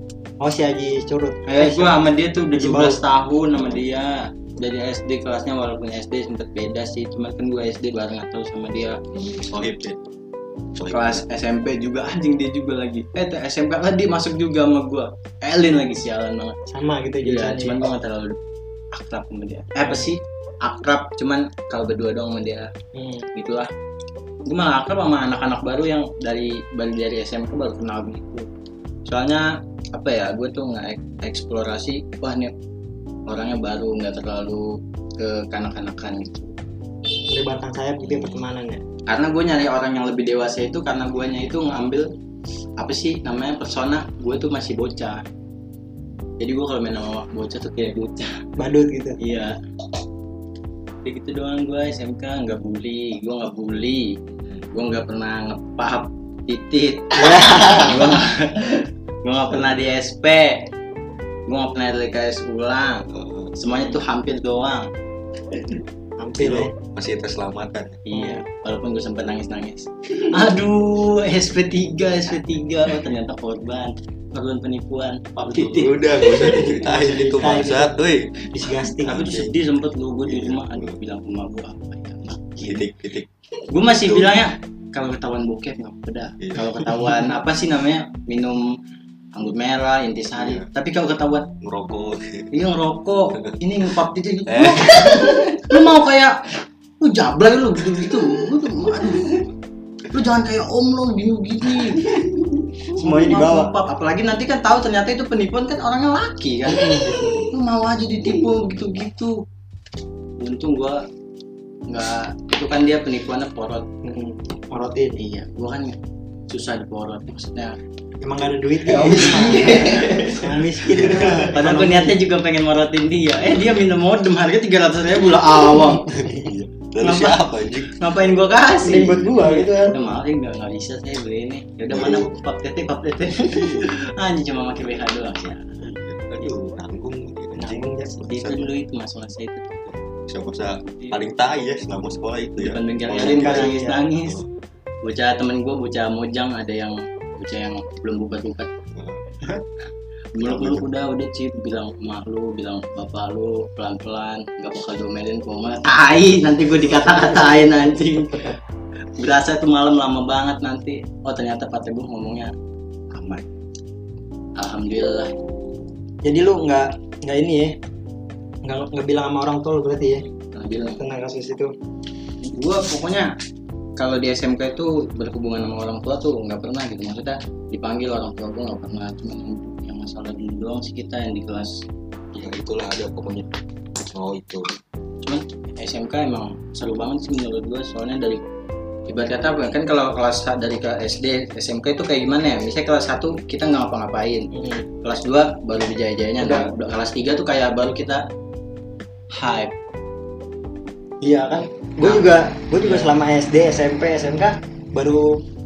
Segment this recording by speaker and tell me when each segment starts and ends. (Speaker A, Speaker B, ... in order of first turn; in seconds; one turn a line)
Speaker A: 0.4-2.0
Speaker B: 1.5-9.0
Speaker A: 2.6-3.0
Speaker C: 3.5-3.9
Speaker C: 9.1-10.0
Speaker C: 10.8-11.2
Speaker B: 10.9-16.6
Speaker A: 16.7-17.9
Speaker B: 17.2-18.4
Speaker B: 18.9-22.7
Speaker A: 19.9-20.1
Speaker A: 22.9-23.3
Speaker B: 23.3-23.7
Speaker B: 24.5-28.5
Speaker B: 29.1-32.5
Speaker B: 33.3-36.6
Speaker A: 37.3-38.8
Speaker C: 38.0-38.5
Speaker B: 39.1-42.1
Speaker B: 42.8-45.2
Speaker B: 46.4-48.4
Speaker A: 48.6-49.2
Speaker B: 49.2-49.6
Speaker B: 51.0-54.2
Speaker C: 54.4-54.6
Speaker B: 54.7-60.7
Speaker A: 57.2-58.1
Speaker B: 61.5-64.9
Speaker C: 63.1-63.5
Speaker A: 66.2-66.7
Speaker C: 66.4-68.0
Speaker B: 68.1-77.5
Speaker A: 68.1-68.4
Speaker C: 75.4-78.3
Speaker A: 76.9-78.0
Speaker A: 78.5-79.2
Speaker B: 79.0-82.9
Speaker C: 79.0-79.6
Speaker C: 80.2-81.0
Speaker C: 82.6-84.5
Speaker B: 83.7-88.8
Speaker C: 86.4-86.7
Speaker B: 89.3-91.5
Speaker C: 90.3-90.7
Speaker C: 91.6-92.5
Speaker B: 92.5-96.5
Speaker C: 94.5-95.7
Speaker B: 97.0-99.5
Speaker B: 100.1-109.4
Speaker C: 102.0-102.3
Speaker A: 103.0-103.7
Speaker C: 107.2-107.5
Speaker B: 110.4-111.1
Speaker B: 111.9-113.9
Speaker A: 114.0-115.2
Speaker B: 115.1-116.0
Speaker B: 116.5-117.8
Speaker A: 118.2-122.2
Speaker B: 118.9-126.2
Speaker C: 121.0-121.5
Speaker C: 126.1-128.0
Speaker B: 127.0-135.9
Speaker A: 128.8-130.0
Speaker C: 131.9-132.3
Speaker C: 133.5-133.9
Speaker C: 135.8-138.7
Speaker A: 137.6-138.2
Speaker B: 138.2-139.9
Speaker C: 139.9-144.5
Speaker B: 142.6-144.4
Speaker A: 143.1-144.0
Speaker B: 145.0-148.7
Speaker C: 148.9-149.4
Speaker B: 150.3-158.6
Speaker C: 150.4-150.9
Speaker A: 156.9-158.5
Speaker B: 159.2-162.5
Speaker B: 163.1-163.4
Speaker B: 164.6-165.4
Speaker A: 166.2-167.8
Speaker A: 168.6-170.3
Speaker B: 170.5-171.0
Speaker A: 171.0-171.7
Speaker B: 172.4-173.3
Speaker B: 174.0-181.8
Speaker C: 182.3-183.5
Speaker C: 184.1-184.7
Speaker B: 185.2-188.4
Speaker B: 189.1-198.2
Speaker A: 194.6-194.8
Speaker A: 196.4-196.7
Speaker B: 199.3-199.7
Speaker A: 201.2-205.4
Speaker B: 202.0-203.2